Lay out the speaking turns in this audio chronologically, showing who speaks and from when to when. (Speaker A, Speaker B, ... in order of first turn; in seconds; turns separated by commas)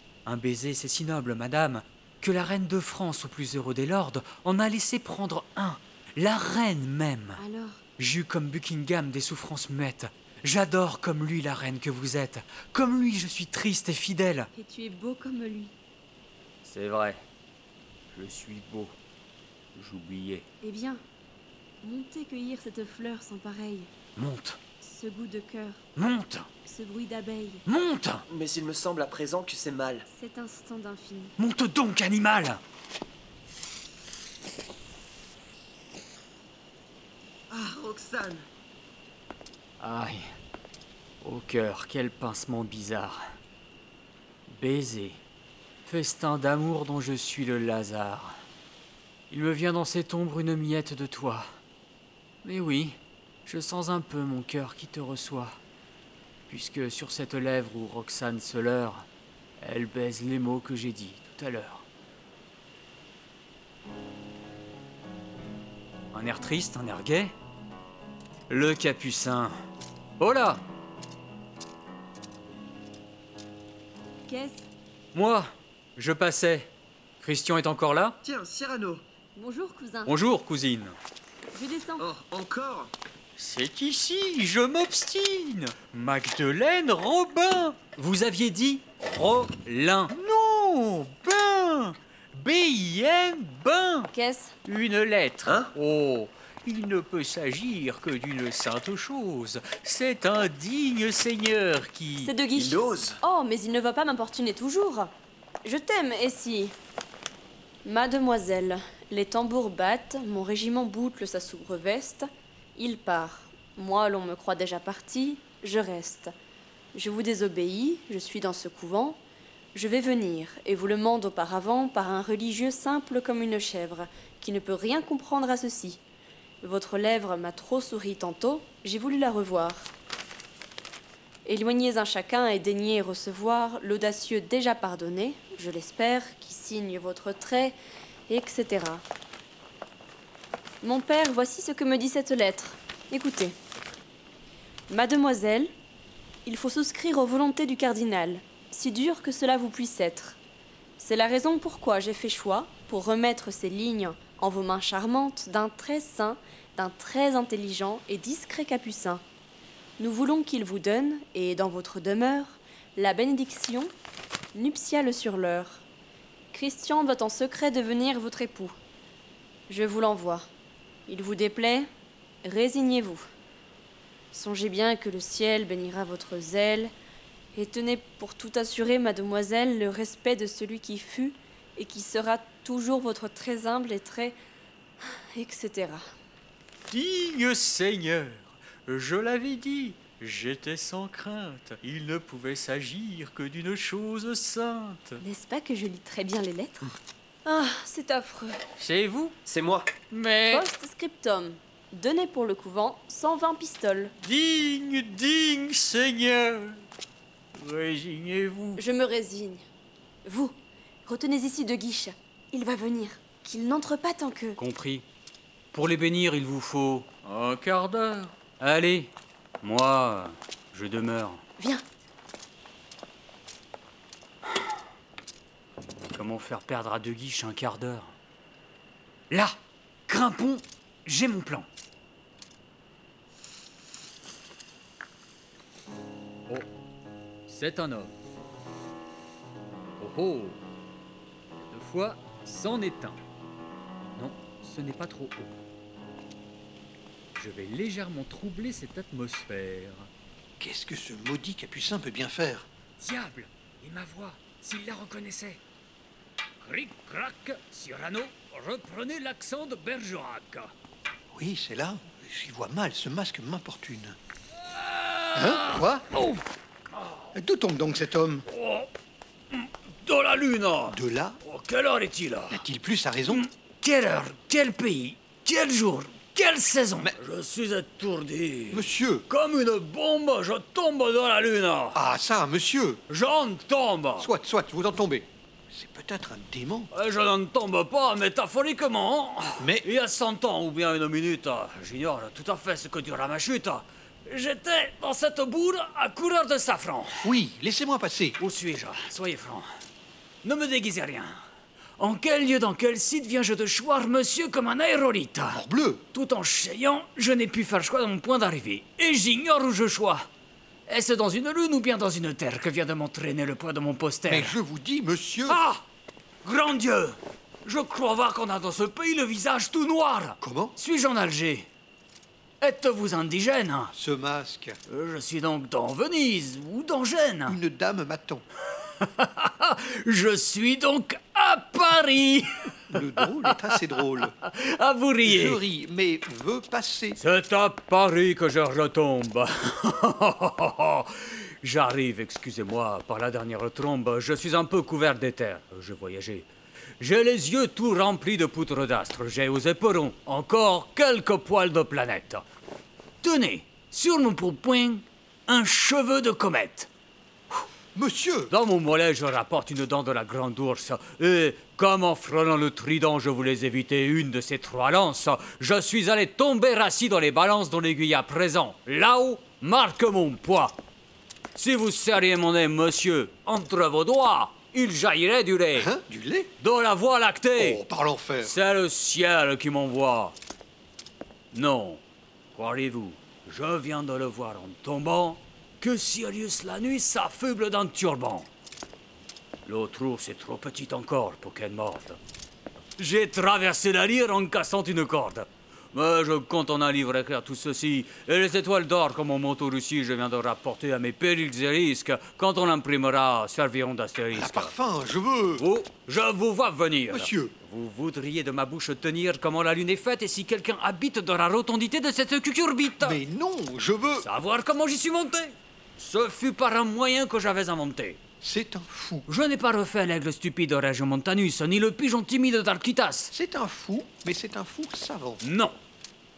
Speaker A: 0.2-7.4, Speaker B: 7.4-7.8, Speaker A: 8.0-14.5, Speaker B: 14.5-15.8, Speaker A: 16.6-17.2, Speaker A: 18.1-18.9, Speaker A: 19.8-20.5, Speaker B: 20.6-21.0, Speaker B: 21.8-23.9, Speaker A: 24.2-24.6, Speaker B: 24.8-25.8, Speaker A: 26.0-26.5, Speaker B: 26.7-27.6, Speaker A: 27.7-28.2, Speaker C: 28.3-30.1, Speaker B: 30.1-31.3, Speaker A: 31.4-32.6, Speaker C: 37.5-38.5, Speaker A: 39.8-40.3, Speaker A: 41.2-43.2, Speaker A: 44.5-45.2, Speaker A: 45.9-48.4, Speaker A: 49.3-51.5, Speaker A: 52.4-55.6, Speaker A: 56.5-59.1, Speaker A: 59.6-61.9, Speaker A: 66.1-67.3, Speaker A: 68.5-69.5, Speaker A: 70.2-70.6, Speaker B: 74.3-74.7, Speaker A: 75.1-78.2, Speaker C: 78.2-79.0, Speaker B: 79.4-80.2, Speaker A: 80.1-81.0, Speaker B: 81.5-82.1, Speaker C: 82.0-82.9, Speaker A: 83.4-94.1, Speaker B: 94.1-94.6, Speaker A: 94.7-102.3, Speaker C: 95.5-95.7, Speaker B: 102.2-106.8, Speaker C: 102.5-103.2, Speaker B: 107.8-116.3, Speaker B: 117.0-119.2, Speaker B: 119.7-126.0, Speaker B: 126.6-129.9, Speaker B: 131.4-137.8, Speaker B: 138.3-139.0, Speaker B: 140.8-143.6, Speaker B: 144.9-145.7, Speaker B: 146.5-150.4, Speaker B: 151.0-159.2, Speaker B: 160.0-163.9, Speaker B: 164.5-165.8, Speaker B: 166.5-168.8, Speaker B: 169.7-170.5, Speaker B: 171.1-171.9, Speaker B: 172.4-173.2, Speaker B: 174.3-176.9, Speaker B: 177.5-184.4, Speaker B: 185.0-186.1, Speaker A: 186.9-195.2, Speaker B: 195.2-198.6, Speaker A: 198.8-199.4, Speaker C: 199.5-199.9, Speaker A: 200.1-200.7, Speaker B: 200.5-204.1, Speaker A: 204.2-206.8, Speaker A: 207.6-208.8, Speaker B: 208.8-209.6, Speaker B: 210.2-214.6, Speaker A: 214.6-215.1, Speaker A: 215.7-219.1, Speaker A: 219.6-221.4, Speaker B: 221.6-221.8, Speaker A: 226.1-228.1, Speaker A: 229.3-229.6, Speaker A: 230.1-231.7, Speaker A: 237.5-238.1, Speaker A: 240.0-240.6, Speaker A: 241.6-243.2, Speaker A: 244.2-245.6, Speaker A: 247.4-250.1, Speaker D: 250.6-252.7, Speaker A: 253.0-255.6, Speaker A: 256.6-260.7, Speaker D: 261.3-264.2, Speaker A: 264.7-266.4, Speaker D: 265.4-266.1, Speaker D: 267.3-268.5, Speaker A: 268.5-268.9, Speaker A: 269.5-272.6, Speaker D: 270.9-271.4, Speaker D: 272.5-273.4, Speaker A: 273.3-282.0, Speaker D: 278.7-279.3, Speaker D: 281.9-283.0, Speaker A: 283.1-284.3, Speaker D: 284.2-286.9, Speaker A: 286.9-297.3, Speaker D: 289.6-289.9, Speaker D: 297.2-298.4, Speaker A: 298.4-299.7, Speaker A: 300.4-301.4, Speaker A: 302.0-305.6, Speaker D: 305.5-306.0, Speaker A: 306.1-310.3, Speaker A: 310.9-314.6, Speaker D: 314.3-315.6, Speaker A: 315.5-315.8, Speaker A: 316.4-321.7, Speaker D: 320.4-320.8, Speaker A: 322.6-323.9, Speaker D: 323.9-324.8, Speaker A: 324.9-327.6, Speaker D: 327.5-328.4, Speaker A: 329.0-335.6, Speaker D: 332.9-334.4, Speaker D: 335.2-337.2, Speaker A: 337.2-346.5, Speaker A: 347.0-352.4, Speaker A: 353.2-356.9, Speaker D: 357.9-358.5, Speaker A: 358.5-370.8, Speaker A: 371.6-375.9, Speaker D: 375.7-376.5, Speaker A: 376.6-377.8, Speaker D: 377.6-378.6, Speaker A: 378.4-380.4, Speaker A: 381.5-382.0, Speaker A: 382.6-388.5, Speaker A: 389.7-392.2, Speaker A: 393.0-404.7, Speaker D: 404.3-405.6, Speaker A: 405.6-413.2, Speaker D: 407.1-407.5, Speaker D: 413.0-414.3, Speaker A: 414.2-418.2, Speaker D: 418.4-419.3, Speaker A: 419.3-423.3, Speaker D: 423.3-425.4, Speaker A: 425.4-425.8